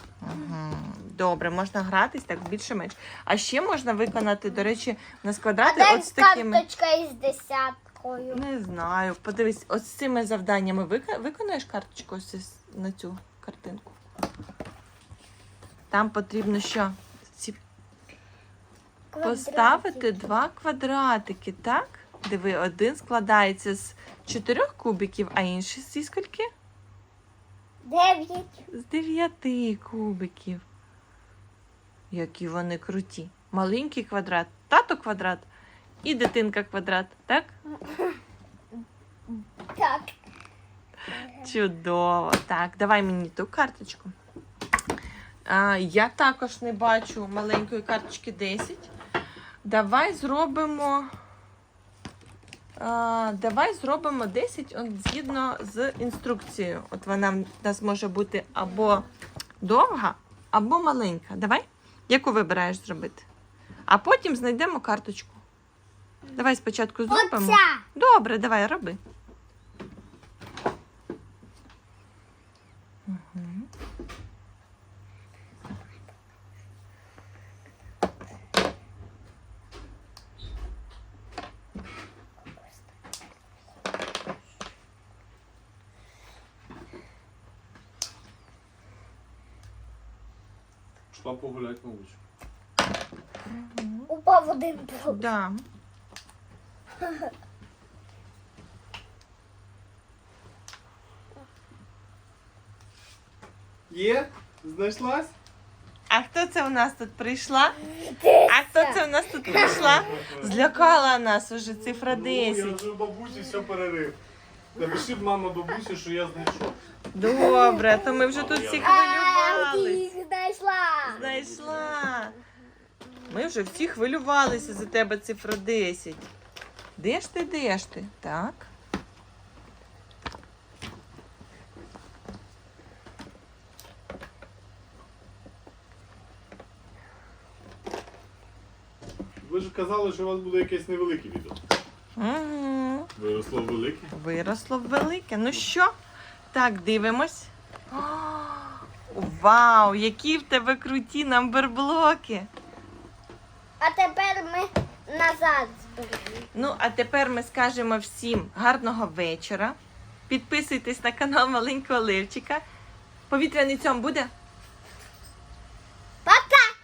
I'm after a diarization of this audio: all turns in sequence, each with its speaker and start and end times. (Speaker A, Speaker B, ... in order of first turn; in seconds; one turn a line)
Speaker A: 0.2-6.6
Speaker B: 5.6-8.4
Speaker A: 8.3-14.0
Speaker A: 15.9-17.6
Speaker B: 19.1-20.2
Speaker A: 19.2-26.5
Speaker B: 27.8-28.6
Speaker A: 28.7-30.6
Speaker A: 32.1-35.5
Speaker A: 36.0-37.5
Speaker B: 37.8-38.2
Speaker B: 38.7-40.1
Speaker B: 41.1-41.5
Speaker A: 41.4-44.1
Speaker A: 45.5-48.9
Speaker A: 49.6-51.1
Speaker A: 52.8-59.0
Speaker A: 59.6-63.2
Speaker A: 63.9-65.4
Speaker B: 66.2-66.5
Speaker A: 66.3-69.0
Speaker B: 67.1-67.8
Speaker A: 73.0-73.7
Speaker C: 91.1-92.2
Speaker A: 93.5-94.1
Speaker B: 94.1-95.2
Speaker A: 95.1-95.6
Speaker C: 103.9-105.3
Speaker A: 106.1-107.8
Speaker B: 107.9-110.1
Speaker A: 108.5-112.8
Speaker C: 109.5-110.4
Speaker C: 112.1-114.2
Speaker C: 114.7-116.8
Speaker A: 117.1-120.1
Speaker B: 117.2-118.1
Speaker C: 118.2-119.0
Speaker B: 118.8-121.2
Speaker C: 121.0-122.0
Speaker A: 121.1-122.3
Speaker A: 123.3-126.3
Speaker A: 127.0-128.7
Speaker C: 139.4-141.6
Speaker A: 142.2-143.1
Speaker C: 143.2-144.1
Speaker A: 144.1-145.9
Speaker A: 146.5-152.5
Speaker B: 153.8-156.5
Speaker A: 156.5-159.8
Speaker A: 160.3-162.6
Speaker A: 163.3-164.3
Speaker B: 166.2-166.7